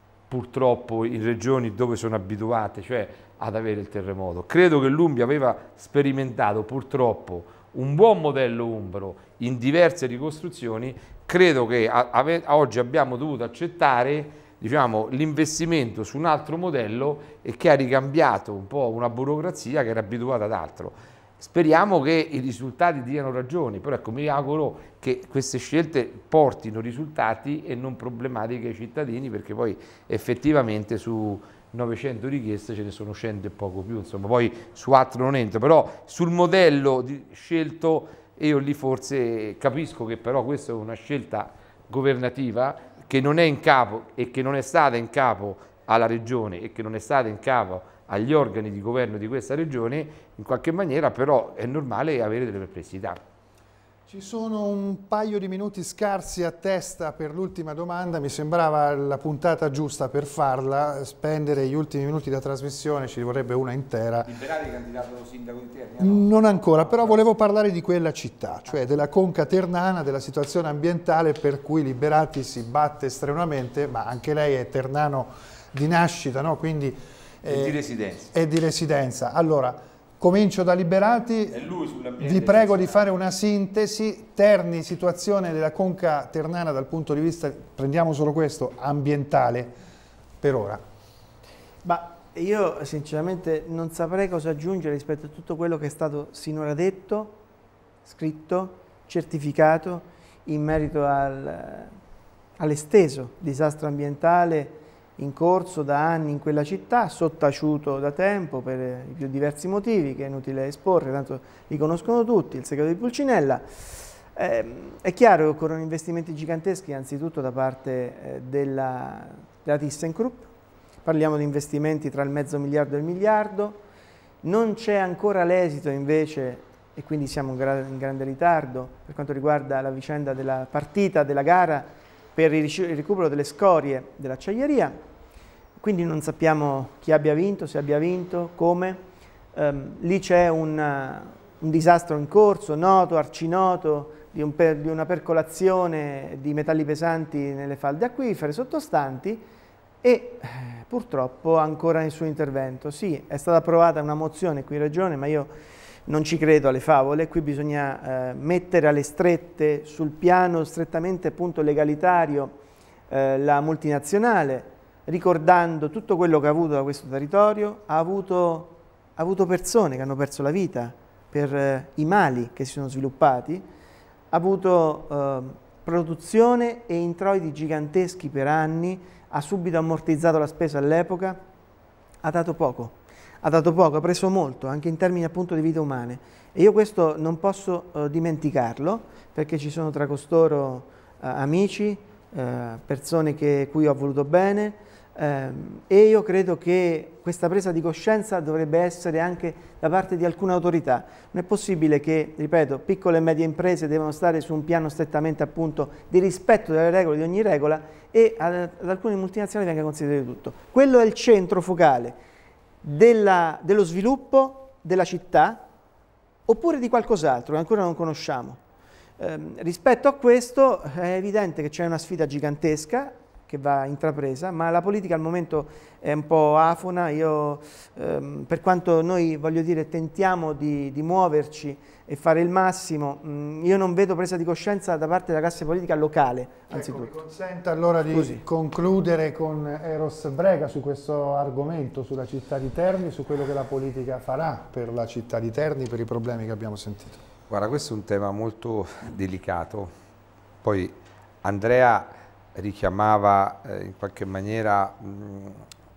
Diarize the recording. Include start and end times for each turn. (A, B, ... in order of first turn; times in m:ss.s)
0:00.3-0:53.2 A
0:54.1-1:04.3 B
1:04.2-1:07.2 A
1:06.0-1:17.8 B
1:17.4-1:18.3 A
1:18.3-1:21.6 B
1:21.5-1:23.0 A
1:22.2-1:29.7 B
1:30.4-1:30.8 B
1:31.8-1:37.4 C
1:38.0-1:41.9 C
1:42.6-1:53.6 C
1:54.3-2:00.5 C
2:01.0-2:03.8 C
2:04.4-2:15.0 C
2:15.8-2:19.0 C
2:19.5-2:29.4 C
2:30.0-2:35.5 C
2:36.1-2:42.6 C
2:43.1-2:53.6 C
2:54.3-3:01.4 C
3:02.2-3:32.2 C
3:32.8-3:35.6 C
3:36.5-3:38.6 C
3:39.2-3:57.2 C
3:56.7-4:07.2 B
3:58.1-3:58.4 C
4:07.5-4:09.9 A
4:10.6-4:15.6 A